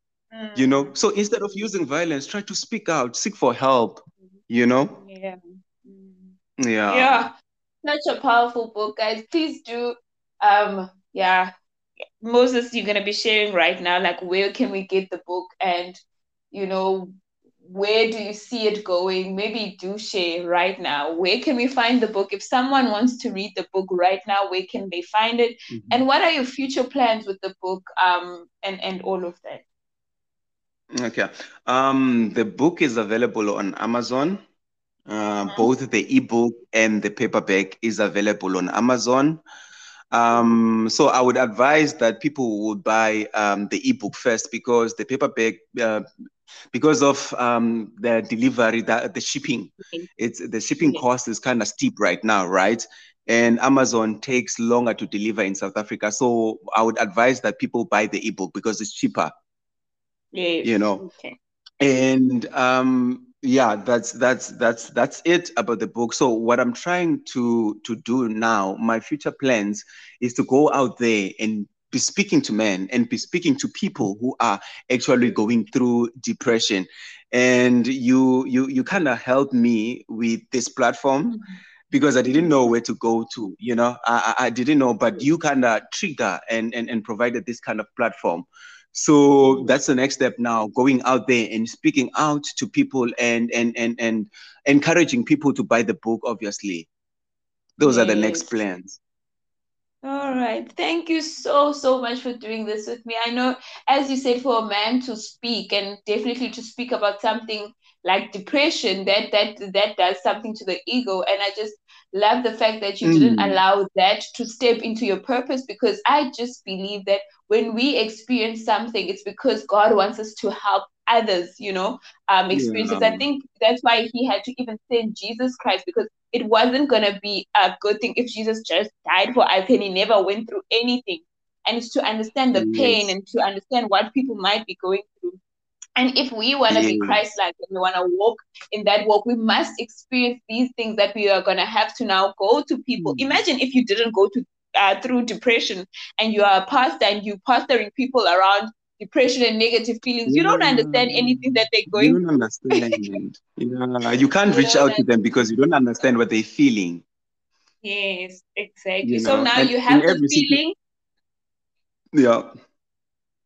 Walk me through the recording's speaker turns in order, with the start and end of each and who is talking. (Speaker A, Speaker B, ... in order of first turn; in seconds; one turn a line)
Speaker A: 0.3-1.6
Speaker B: 0.6-5.0
Speaker A: 4.9-6.4
Speaker B: 6.6-7.3
Speaker A: 6.9-7.3
Speaker A: 7.8-11.5
Speaker A: 12.2-16.0
Speaker A: 16.5-29.6
Speaker B: 25.7-26.0
Speaker B: 31.0-34.4
Speaker B: 35.1-39.4
Speaker A: 35.5-35.7
Speaker B: 40.1-46.0
Speaker B: 46.7-59.3
Speaker A: 50.8-51.0
Speaker A: 60.3-61.4
Speaker B: 60.6-61.0
Speaker B: 61.8-96.9
Speaker A: 89.4-89.8
Speaker B: 97.8-99.0
Speaker A: 97.8-98.5
Speaker A: 100.0-135.4
Speaker B: 113.0-113.6
Speaker B: 122.5-123.3
Speaker B: 132.6-133.1
Speaker A: 136.0-152.2
Speaker B: 136.7-137.2
Speaker B: 143.0-143.4
Speaker B: 150.3-157.0
Speaker A: 154.4-155.1
Speaker A: 157.8-160.7
Speaker B: 159.0-160.6
Speaker B: 162.1-162.5